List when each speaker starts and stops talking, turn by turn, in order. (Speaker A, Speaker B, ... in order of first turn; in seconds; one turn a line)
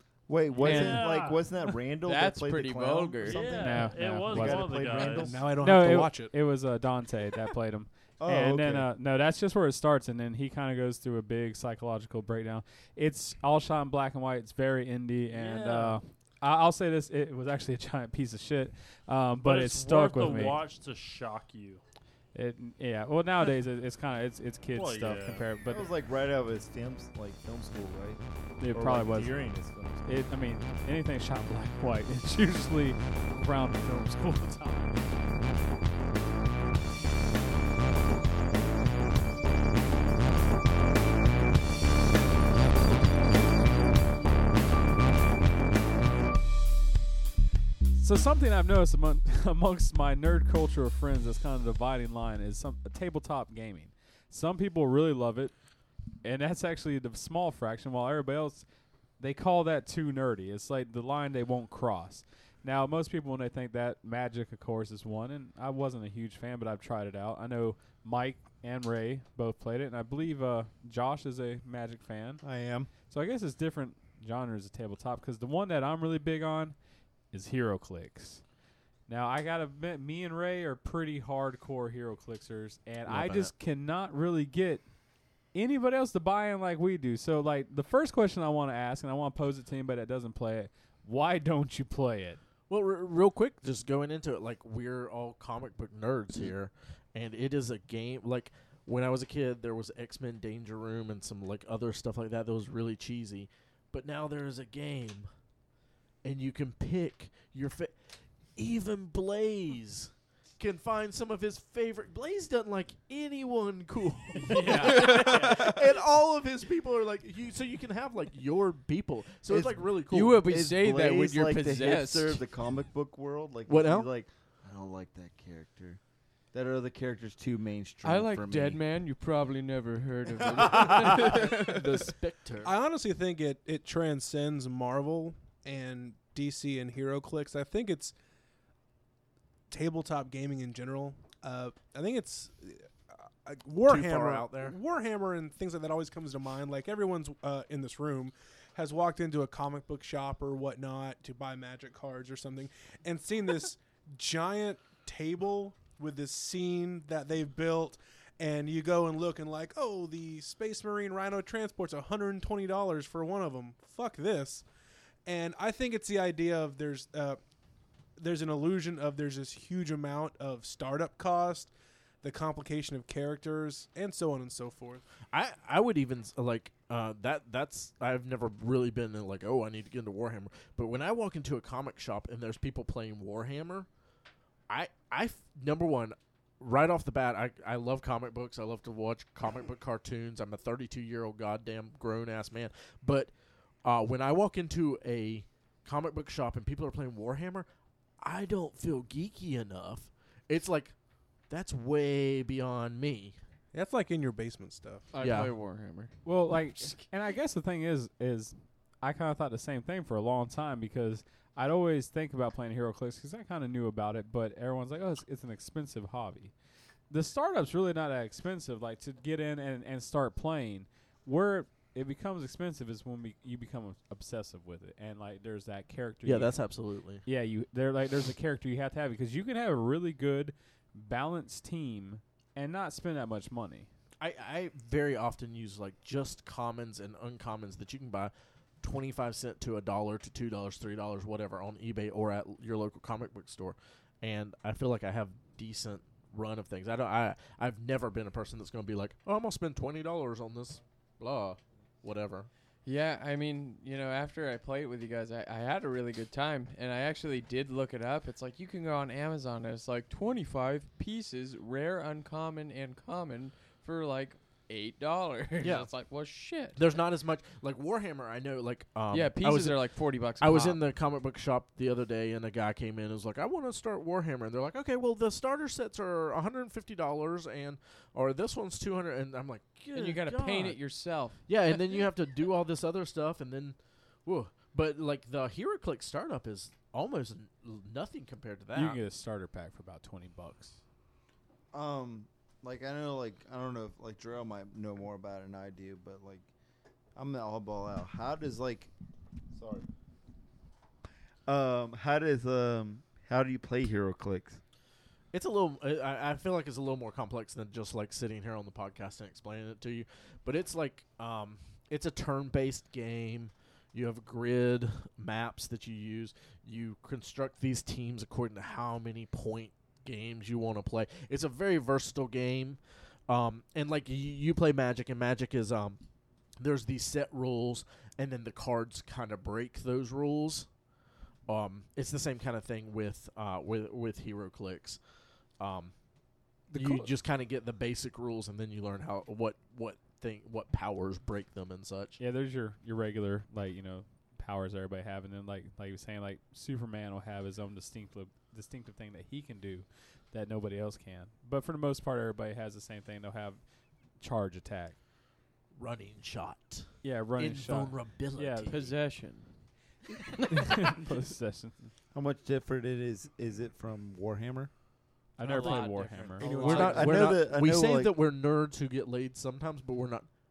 Speaker A: 0.3-5.4
Speaker B: 0.6-1.5
Speaker C: 0.6-1.1
Speaker C: 2.0-3.6
Speaker B: 3.2-5.4
Speaker D: 3.4-20.6
Speaker E: 5.2-6.3
Speaker A: 8.2-8.9
Speaker B: 15.3-16.0
Speaker B: 19.4-21.8
Speaker D: 22.3-25.9
Speaker B: 24.7-25.5
Speaker A: 25.6-30.1
Speaker D: 28.6-29.4
Speaker D: 30.0-35.0
Speaker D: 47.9-55.5
Speaker D: 56.2-58.6
Speaker D: 59.2-72.4
Speaker A: 72.4-72.9
Speaker D: 73.1-76.8
Speaker D: 77.3-78.4
Speaker D: 79.1-84.8
Speaker F: 83.0-83.5
Speaker D: 85.5-92.4
Speaker F: 92.7-105.3
Speaker F: 106.2-107.9
Speaker F: 108.5-120.5
Speaker C: 114.4-115.6
Speaker A: 119.5-126.0
Speaker C: 120.1-122.4
Speaker F: 123.7-124.1
Speaker A: 126.5-128.8
Speaker C: 128.0-131.5
Speaker A: 130.4-131.4
Speaker F: 131.2-132.7
Speaker E: 132.6-138.1
Speaker E: 139.7-142.9
Speaker E: 143.4-164.7
Speaker F: 143.8-144.8
Speaker E: 165.2-167.4
Speaker E: 168.2-175.0
Speaker F: 175.3-183.9
Speaker F: 184.7-193.3
Speaker F: 193.8-197.7
Speaker F: 198.2-200.9
Speaker F: 201.5-203.3
Speaker E: 203.7-205.1
Speaker C: 205.1-206.1
Speaker F: 205.1-205.5
Speaker D: 206.2-216.5
Speaker D: 217.1-226.5
Speaker F: 226.2-227.2
Speaker D: 227.2-233.9
Speaker F: 234.2-252.5
Speaker C: 252.8-266.8
Speaker F: 265.6-265.9
Speaker F: 266.7-280.8
Speaker C: 269.1-270.8
Speaker C: 279.9-281.4
Speaker F: 281.4-289.0
Speaker D: 288.7-290.8
Speaker A: 291.7-296.5
Speaker A: 297.1-298.9
Speaker A: 299.5-299.9
Speaker A: 301.5-304.6
Speaker F: 305.3-326.0
Speaker F: 326.6-330.7
Speaker F: 331.5-335.0
Speaker F: 335.6-335.9
Speaker D: 336.7-337.1
Speaker F: 336.7-342.2
Speaker D: 342.2-353.6
Speaker D: 354.2-355.0
Speaker F: 355.8-358.9
Speaker D: 357.0-358.7
Speaker C: 358.7-360.8
Speaker D: 360.5-361.9
Speaker A: 362.1-364.7
Speaker D: 365.4-366.8
Speaker C: 365.4-366.9
Speaker B: 365.5-366.4
Speaker E: 366.4-367.3
Speaker F: 366.4-370.3
Speaker A: 366.7-368.1